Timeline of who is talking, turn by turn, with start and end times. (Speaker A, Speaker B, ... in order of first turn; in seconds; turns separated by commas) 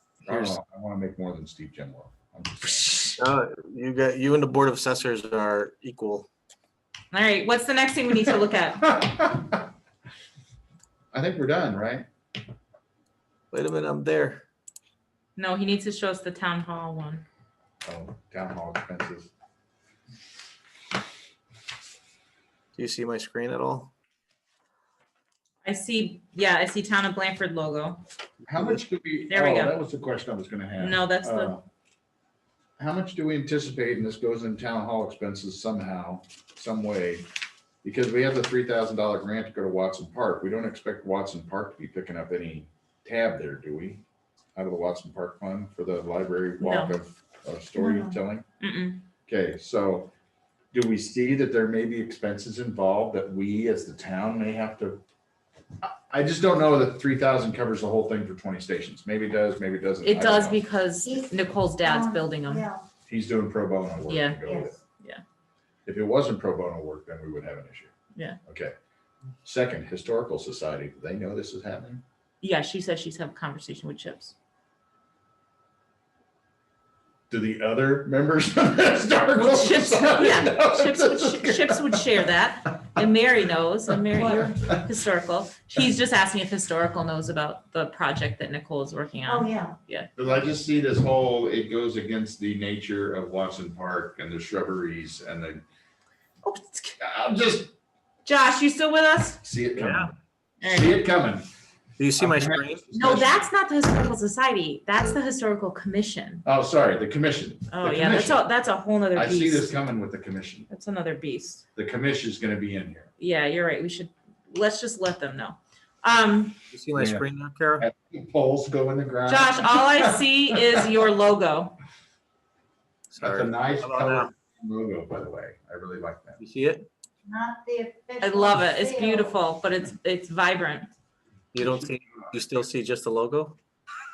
Speaker A: 0.3-3.2, Speaker B: 0.3-0.6, Speaker B: 3.2-6.3, Speaker C: 7.1-9.0, Speaker A: 8.9-9.5, Speaker A: 11.1-12.1, Speaker B: 13.5-14.4, Speaker C: 15.4-17.2, Speaker A: 17.9-19.3, Speaker B: 22.8-23.9, Speaker C: 25.6-28.0, Speaker A: 28.5-31.6, Speaker C: 29.3-29.8, Speaker C: 30.8-31.5, Speaker A: 32.8-37.3, Speaker A: 37.8-44.0, Speaker A: 44.5-48.4, Speaker C: 46.6-47.0, Speaker D: 47.8-48.1, Speaker C: 48.6-49.0, Speaker A: 49.3-50.1, Speaker A: 50.7-55.0, Speaker A: 55.8-60.6, Speaker C: 60.0-62.7, Speaker D: 61.8-62.8, Speaker A: 63.1-64.8, Speaker C: 64.1-64.4, Speaker D: 64.5-64.7, Speaker A: 65.9-67.9, Speaker A: 68.5-68.7, Speaker A: 69.4-72.0, Speaker C: 72.4-74.3, Speaker A: 77.3-82.1, Speaker C: 79.3-90.1, Speaker A: 84.2-84.5, Speaker D: 89.3-89.7, Speaker A: 90.2-95.6, Speaker C: 96.5-97.0, Speaker A: 97.0-97.7, Speaker C: 98.2-99.4, Speaker A: 99.4-101.5, Speaker B: 99.8-100.1, Speaker C: 100.6-101.0, Speaker B: 102.0-102.9, Speaker A: 102.2-103.4, Speaker C: 102.9-106.5, Speaker A: 106.5-108.5, Speaker C: 107.7-109.8, Speaker A: 109.2-110.7, Speaker C: 110.7-111.7, Speaker A: 111.8-113.1, Speaker C: 113.2-116.6, Speaker B: 116.7-117.9, Speaker A: 117.0-117.3, Speaker A: 117.8-120.7, Speaker C: 119.3-121.8, Speaker B: 123.1-124.3, Speaker A: 123.2-126.4, Speaker B: 126.4-126.9, Speaker D: 127.3-129.3, Speaker C: 128.2-130.9, Speaker B: 131.5-133.6